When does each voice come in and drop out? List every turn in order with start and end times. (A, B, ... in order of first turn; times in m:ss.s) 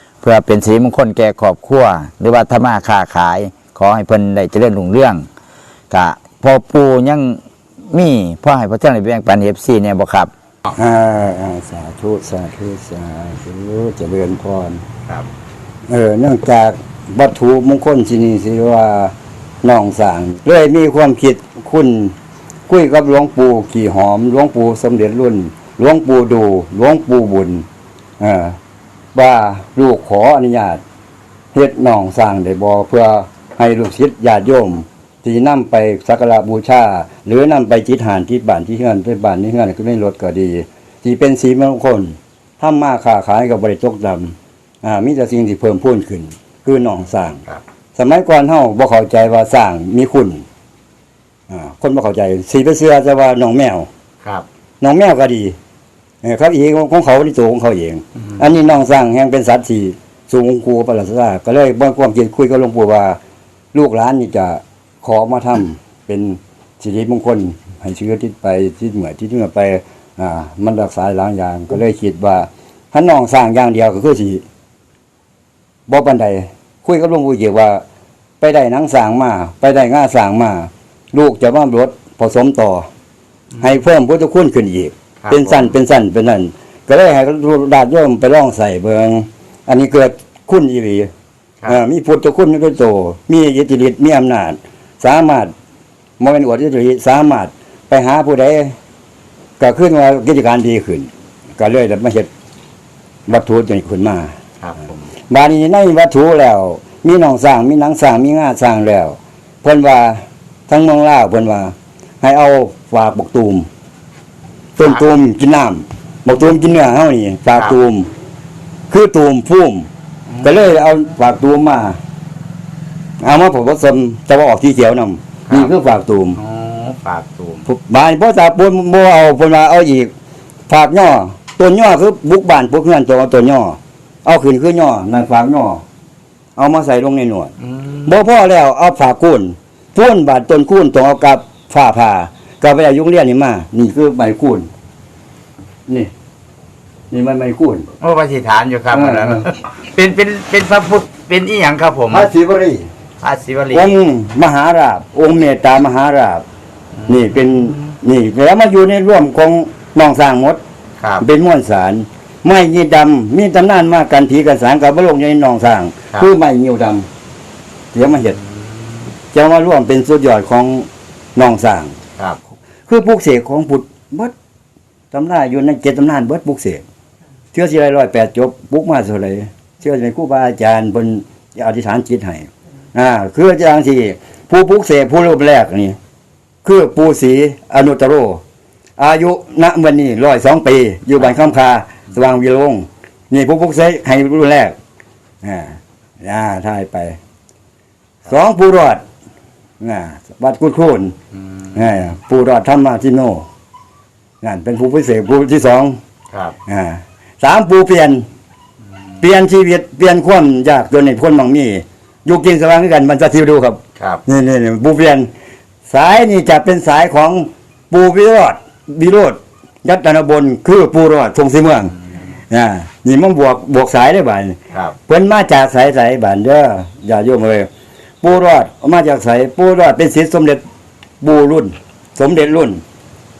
0:00.2-0:05.2 A
0:05.9-0:07.4 A
0:07.9-0:10.3 A
0:10.7-0:14.8 B
0:15.9-0:22.2 B
0:22.7-0:27.6 B
0:28.2-0:28.6 B
0:29.1-0:30.8 B
0:31.5-0:47.4 B
0:48.0-0:50.4 B
0:51.5-0:53.9 B
0:54.8-0:55.6 B
0:56.2-1:03.2 B
1:03.7-1:14.4 B
1:15.9-1:17.8 B
1:18.4-1:22.9 B
1:23.6-1:31.1 B
1:25.2-1:25.7 C
1:31.6-1:35.5 B
1:36.2-1:38.7 B
1:39.6-1:42.3 B
1:43.3-1:44.3 B
1:44.6-1:44.9 C
1:45.3-1:53.7 B
1:54.8-1:58.1 B
1:58.9-1:59.9 B
2:00.4-2:02.0 B
2:03.2-2:06.4 B
2:06.4-2:07.6 C
2:07.6-2:10.1 B
2:10.7-2:15.8 B
2:16.6-2:17.5 B
2:17.7-2:18.1 C
2:18.0-2:24.7 B
2:27.1-2:27.9 B
2:28.0-2:32.3 C
2:28.9-2:29.4 B
2:32.1-2:32.9 B
2:33.2-2:34.0 C
2:33.7-2:36.4 B
2:37.0-2:37.3 C
2:37.1-2:40.6 B
2:41.2-2:47.1 B
2:47.9-2:48.4 B
2:49.3-2:52.0 B
2:52.9-2:54.3 B
2:55.1-2:56.8 B
2:57.5-3:06.0 B
3:06.6-3:08.4 B
3:09.0-3:14.8 B
3:15.4-3:17.2 B
3:18.3-3:19.0 B
3:19.8-3:21.1 B
3:21.7-3:23.4 B
3:24.4-3:26.0 B
3:26.7-3:28.2 B
3:29.2-3:35.3 B
3:35.9-3:41.9 B
3:42.5-3:47.7 B
3:48.2-3:50.6 B
3:51.2-3:52.8 B